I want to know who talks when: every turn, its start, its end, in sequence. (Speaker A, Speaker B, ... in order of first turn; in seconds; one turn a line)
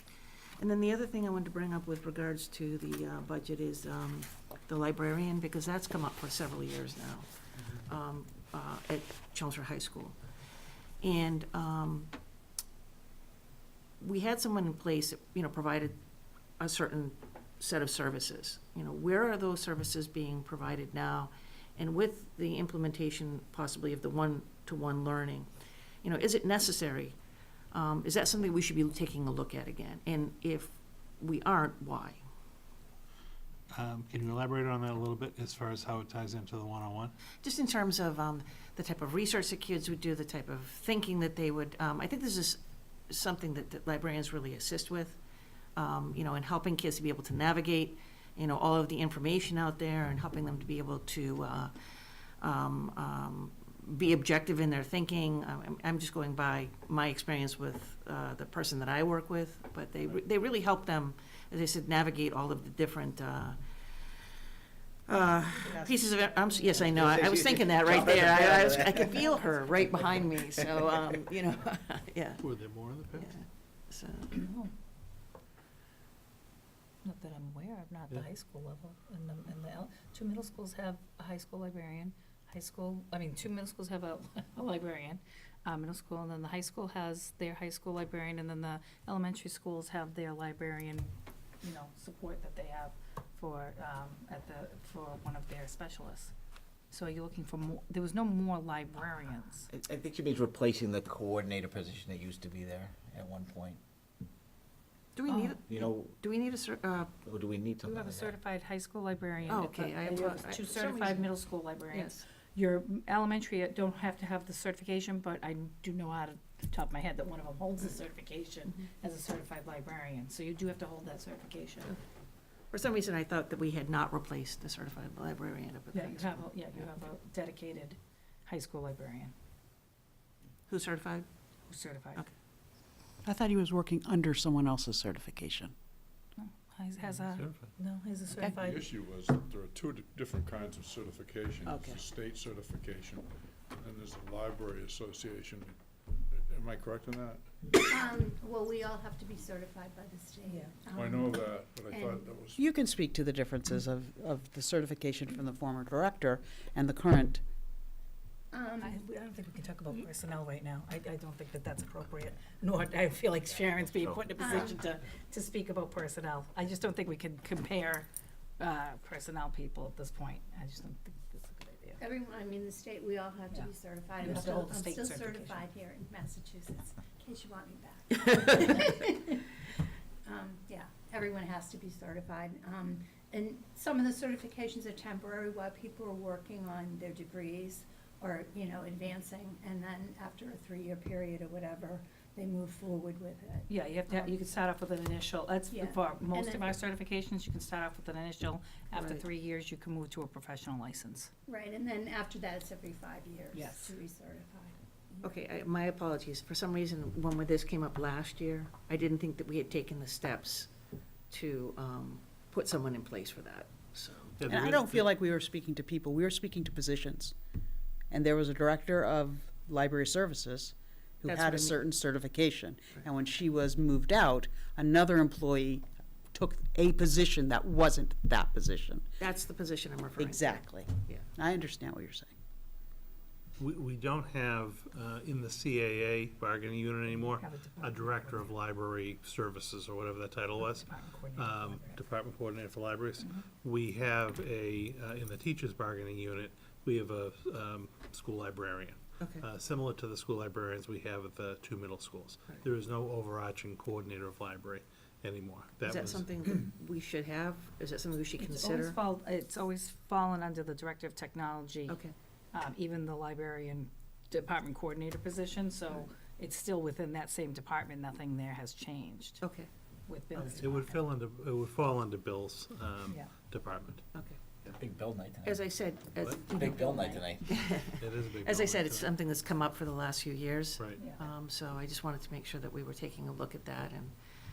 Speaker A: 0.6-10.2
Speaker A: 11.0-12.1
Speaker A: 14.0-16.0
Speaker A: 16.6-25.5
Speaker A: 26.0-27.2
Speaker A: 27.7-32.2
Speaker B: 33.7-37.1
Speaker A: 37.4-45.2
Speaker A: 45.8-51.7
Speaker A: 52.4-63.6
Speaker A: 65.1-72.5
Speaker C: 66.9-69.1
Speaker D: 69.2-69.7
Speaker B: 72.4-73.3
Speaker A: 73.1-74.4
Speaker D: 74.3-74.7
Speaker D: 77.0-91.1
Speaker D: 91.6-96.3
Speaker D: 96.9-99.7
Speaker C: 99.7-103.8
Speaker A: 105.2-107.2
Speaker D: 105.3-105.6
Speaker C: 105.7-106.2
Speaker C: 107.2-108.3
Speaker D: 107.8-122.0
Speaker A: 109.5-111.3
Speaker A: 111.9-112.2
Speaker A: 122.7-126.5
Speaker D: 125.9-129.3
Speaker A: 130.7-131.3
Speaker D: 131.7-132.3
Speaker E: 133.2-135.7
Speaker D: 136.4-138.9
Speaker B: 137.1-137.7
Speaker F: 138.4-145.8
Speaker A: 141.7-142.0
Speaker F: 146.3-147.4
Speaker G: 147.7-152.3
Speaker D: 150.5-150.8
Speaker F: 150.9-152.6
Speaker E: 152.6-157.4
Speaker G: 158.5-159.0
Speaker D: 158.8-168.1
Speaker C: 163.9-164.2
Speaker G: 164.4-164.8
Speaker D: 168.6-172.0
Speaker G: 172.0-179.6
Speaker D: 173.5-175.7
Speaker G: 180.2-194.3
Speaker D: 193.7-201.3
Speaker G: 195.7-196.7
Speaker A: 199.0-199.2
Speaker G: 201.5-205.3
Speaker D: 203.5-203.9
Speaker A: 205.2-210.7
Speaker A: 211.3-214.3
Speaker B: 214.4-215.1
Speaker E: 214.5-217.3
Speaker E: 218.1-229.1
Speaker A: 221.3-221.8
Speaker A: 229.2-231.2
Speaker E: 230.2-232.3
Speaker B: 233.6-256.3
Speaker D: 237.4-238.5
Speaker D: 240.6-242.1
Speaker A: 249.2-249.4
Speaker A: 255.8-259.0
Speaker D: 258.4-262.0
Speaker A: 261.9-262.1
Speaker D: 262.5-269.4
Speaker A: 269.4-269.7
Speaker D: 270.1-271.0
Speaker B: 270.4-274.0
Speaker D: 273.1-273.3
Speaker A: 274.1-274.4
Speaker C: 274.7-275.6
Speaker A: 275.4-284.1
Speaker C: 276.5-277.5
Speaker B: 277.9-279.1
Speaker D: 281.0-281.3